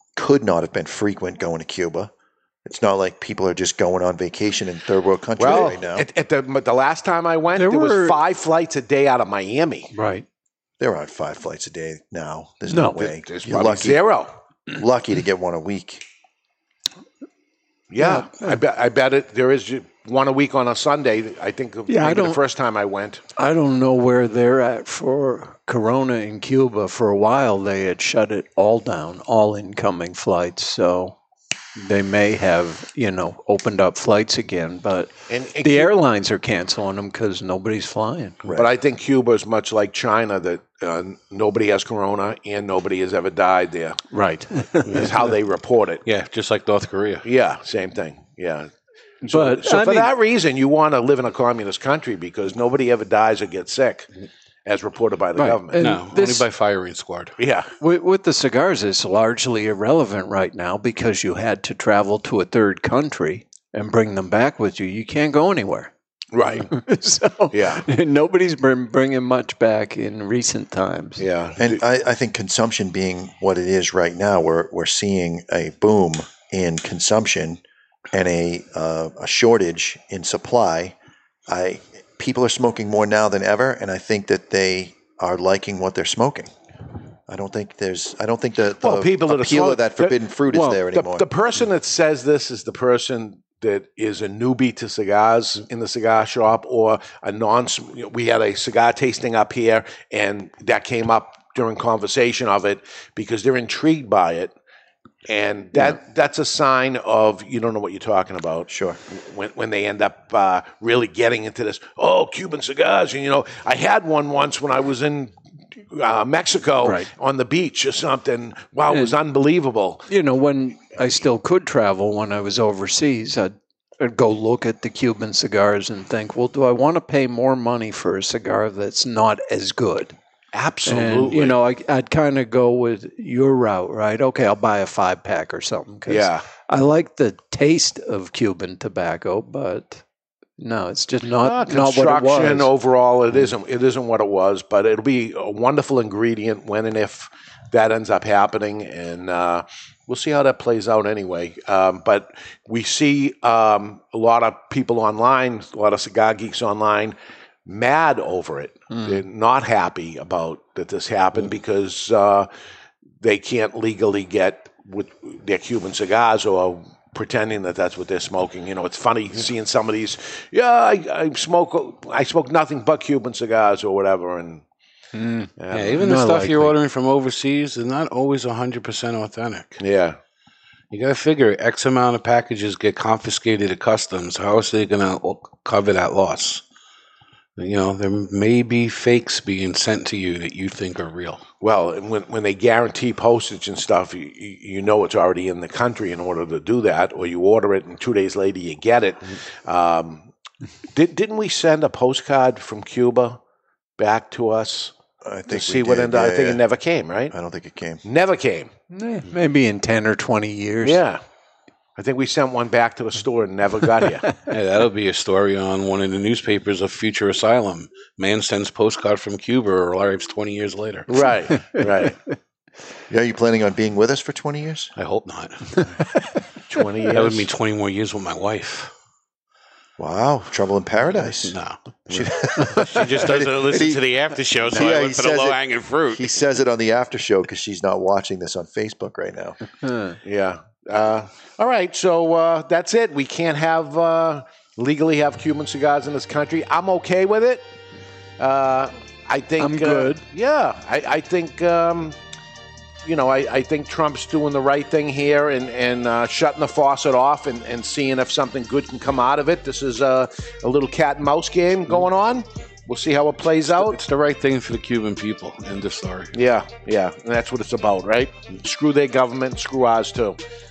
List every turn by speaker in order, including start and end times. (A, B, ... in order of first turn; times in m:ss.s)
0:00.2-0:02.1 A
0:02.6-0:06.1 A
0:05.4-0:09.9 B
0:07.5-0:08.2 C
0:09.9-0:10.2 C
0:10.8-0:14.0 A
0:12.6-0:13.1 C
0:13.1-0:14.3 B
0:14.7-0:16.0 A
0:17.9-0:23.2 B
0:18.0-0:18.6 C
0:21.9-0:22.4 C
0:23.4-0:31.2 C
0:31.8-0:38.5 C
0:35.3-0:36.0 B
0:38.5-0:44.0 B
0:44.1-0:45.1 C
0:44.9-0:45.1 D
0:44.9-0:46.0 B
0:46.0-0:47.2 D
0:47.2-0:48.7 B
0:49.2-0:50.2 C
0:49.3-0:54.1 B
0:54.6-0:55.8 B
0:55.3-0:56.5 C
0:55.8-0:57.4 D
0:57.4-0:57.7 B
0:57.8-1:05.9 C
1:06.3-1:06.7 B
1:06.6-1:11.3 C
1:07.5-1:07.8 B
1:11.2-1:11.8 B
1:11.6-1:20.9 A
1:21.5-1:26.5 A
1:27.3-1:31.2 A
1:28.8-1:30.4 B
1:30.5-1:30.8 C
1:30.9-1:44.5 B
1:45.3-1:55.3 B
1:48.7-1:49.0 A
1:55.9-2:00.1 B
1:56.8-1:57.1 C
1:58.9-1:59.2 C
2:00.1-2:10.1 C
2:10.5-2:11.6 B
2:10.8-2:20.0 C
2:16.1-2:16.5 B
2:20.6-2:22.7 C
2:21.2-2:42.5 B
2:38.9-2:39.2 C
2:43.2-2:54.6 B
2:55.1-2:55.5 C
2:55.6-2:56.0 B
2:55.7-2:59.8 D
2:56.0-2:56.7 C
2:59.8-3:00.2 B
3:00.9-3:06.6 D
3:07.6-3:11.4 D
3:11.6-3:20.3 B
3:20.9-3:23.4 B
3:24.0-3:24.9 B
3:25.2-3:26.6 A
3:25.5-3:27.3 B
3:27.3-3:28.0 A
3:28.0-3:28.7 B
3:28.9-3:31.0 C
3:30.8-3:31.2 B
3:32.0-3:34.3 B
3:34.5-3:41.3 D
3:41.1-3:42.2 B
3:43.1-3:44.9 A
3:45.0-3:45.9 D
3:46.7-3:47.5 B
3:47.1-3:48.9 D
3:50.0-3:51.6 A
3:51.3-3:56.4 D
3:52.1-3:54.0 A
3:54.6-3:55.6 A
3:56.1-3:59.6 A
3:59.8-4:00.2 C
4:00.2-4:07.6 B
4:08.4-4:12.2 B
4:09.6-4:10.2 C
4:13.0-4:24.0 B
4:23.7-4:26.3 D
4:26.3-4:30.4 B